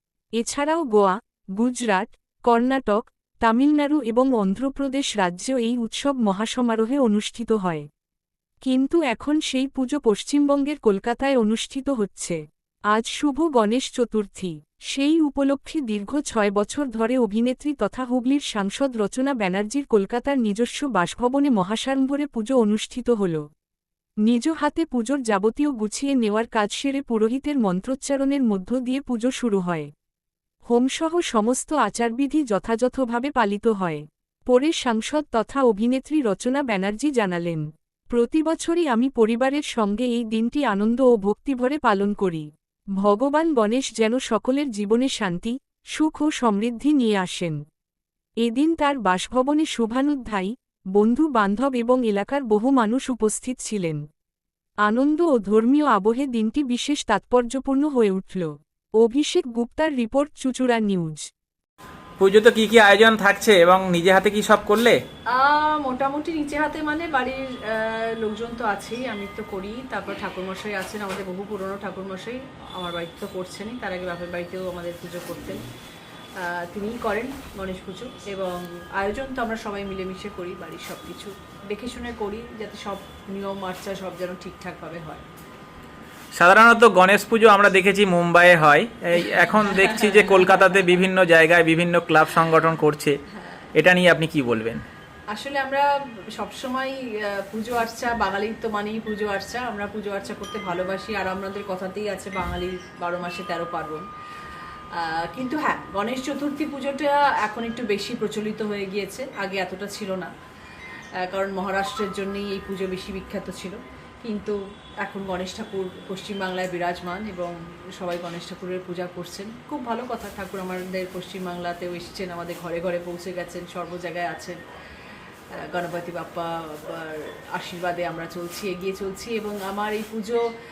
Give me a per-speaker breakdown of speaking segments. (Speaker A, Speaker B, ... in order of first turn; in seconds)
Speaker A: 0.4-7.9, 8.6-12.4, 12.9-23.4, 24.2-29.9, 30.7-47.6, 48.4-54.0, 54.8-61.2
Speaker B: 62.2-65.0, 86.3-93.2, 93.8-94.8
Speaker C: 65.3-75.6, 76.4-85.2, 89.8-90.3, 95.3-95.8, 96.4-104.0, 105.0-110.3, 111.2-124.6, 125.5-130.4